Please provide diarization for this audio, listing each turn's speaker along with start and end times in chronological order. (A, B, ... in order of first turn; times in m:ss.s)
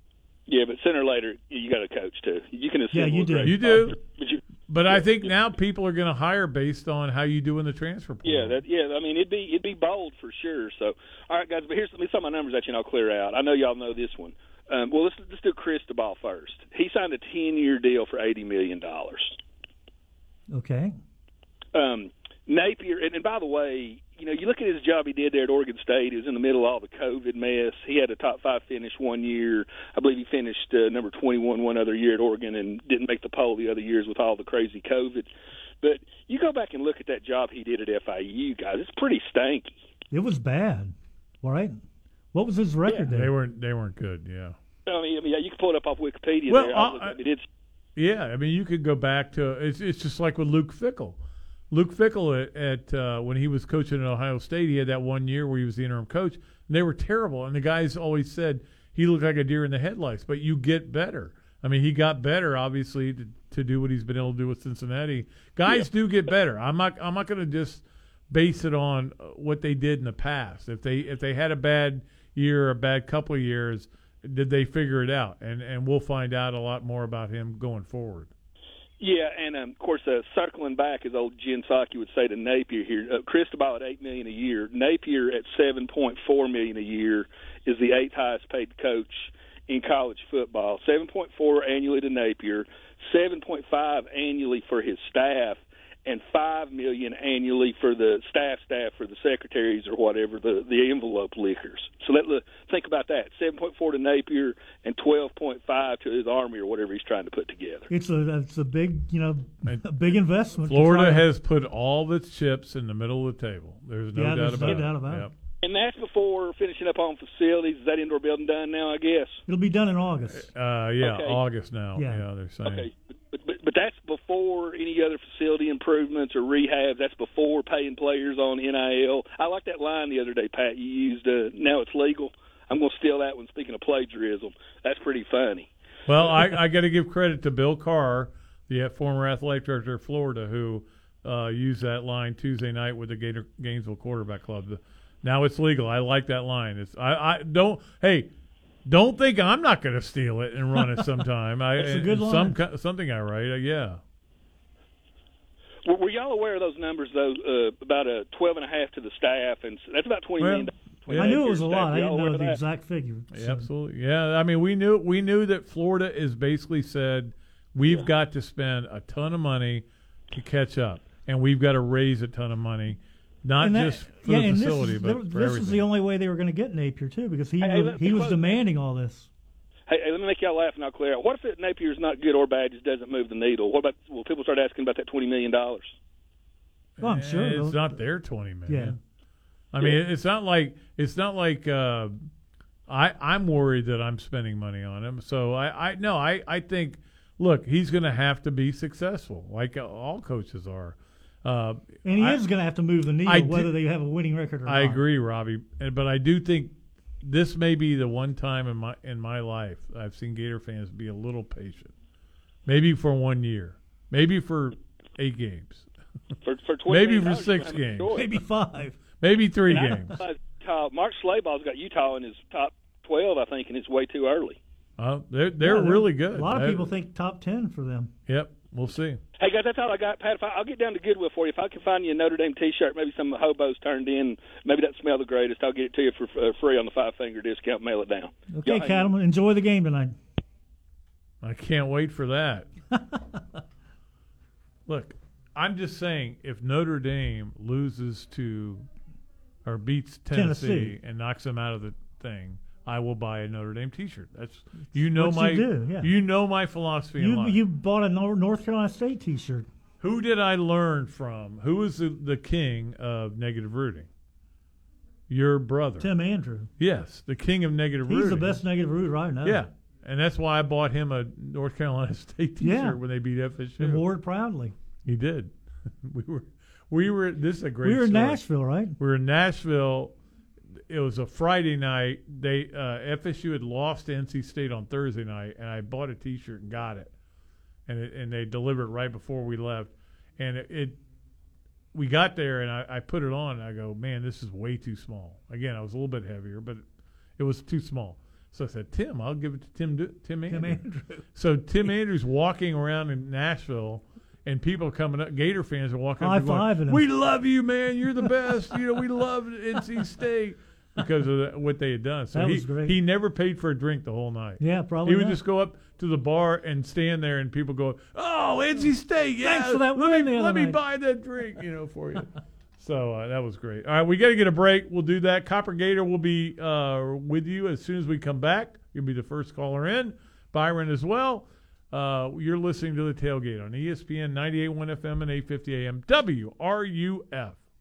0:00.5-0:05.3 A
0:02.9-0:03.9 B
0:03.4-0:04.0 C
0:04.7-0:08.6 C
0:08.2-0:19.4 A
0:20.5-0:21.0 B
0:21.7-0:35.3 A
0:35.8-0:39.8 A
0:40.1-0:41.8 B
0:42.3-0:43.3 B
0:43.1-0:44.6 C
0:44.9-0:47.5 A
0:46.5-0:47.2 C
0:48.0-0:51.2 C
0:51.7-1:18.3 C
1:19.0-1:47.9 A
1:47.9-1:51.2 B
1:50.7-1:55.3 C
1:54.2-1:55.3 B
1:55.6-1:59.4 A
1:59.5-2:00.5 B
2:00.3-2:02.9 C
2:01.0-2:01.4 A
2:02.0-2:02.2 B
2:02.7-2:15.7 A
2:16.1-2:28.3 C
2:28.9-2:34.0 C
2:31.8-2:32.6 B
2:35.8-2:42.6 A
2:40.4-2:41.4 C
2:41.1-2:43.7 B
2:43.3-2:55.9 C
2:53.6-2:59.3 B
2:57.6-2:58.6 A
2:59.9-3:05.9 A
3:07.0-3:09.0 C
3:07.0-3:08.0 B
3:08.7-3:09.0 B
3:09.7-3:12.3 C
3:12.9-3:22.4 C
3:22.0-3:25.0 B
3:23.3-3:23.7 C
3:24.7-3:31.9 C
3:32.7-3:35.8 C
3:36.4-3:38.3 A
3:36.9-3:38.4 C
3:38.1-3:39.0 B
3:39.2-3:40.2 C
3:39.7-3:44.6 A
3:45.0-3:46.9 C
3:45.6-3:48.1 B
3:48.3-3:49.2 C
3:49.4-3:59.1 A
3:58.5-4:00.2 B
4:01.4-4:02.7 C
4:04.9-4:08.9 C
4:09.6-4:17.6 C
4:10.3-4:10.9 B
4:15.2-4:16.1 B
4:17.2-4:19.7 B
4:20.0-4:24.1 C
4:25.3-4:26.1 C
4:26.0-4:26.7 B
4:26.8-4:28.6 C
4:28.1-4:29.6 B
4:29.4-4:34.0 C
4:32.6-4:33.0 B
4:33.8-4:34.7 B
4:35.0-4:38.4 C
4:37.8-4:39.0 B
4:39.0-4:40.1 C
4:40.9-4:47.1 C
4:47.9-4:51.0 C
4:51.9-4:56.8 C
4:57.4-5:00.8 C
5:00.5-5:01.2 B
5:01.3-5:37.6 C
5:06.2-5:07.0 B
5:12.3-5:13.0 B
5:14.6-5:15.4 B
5:19.4-5:20.8 B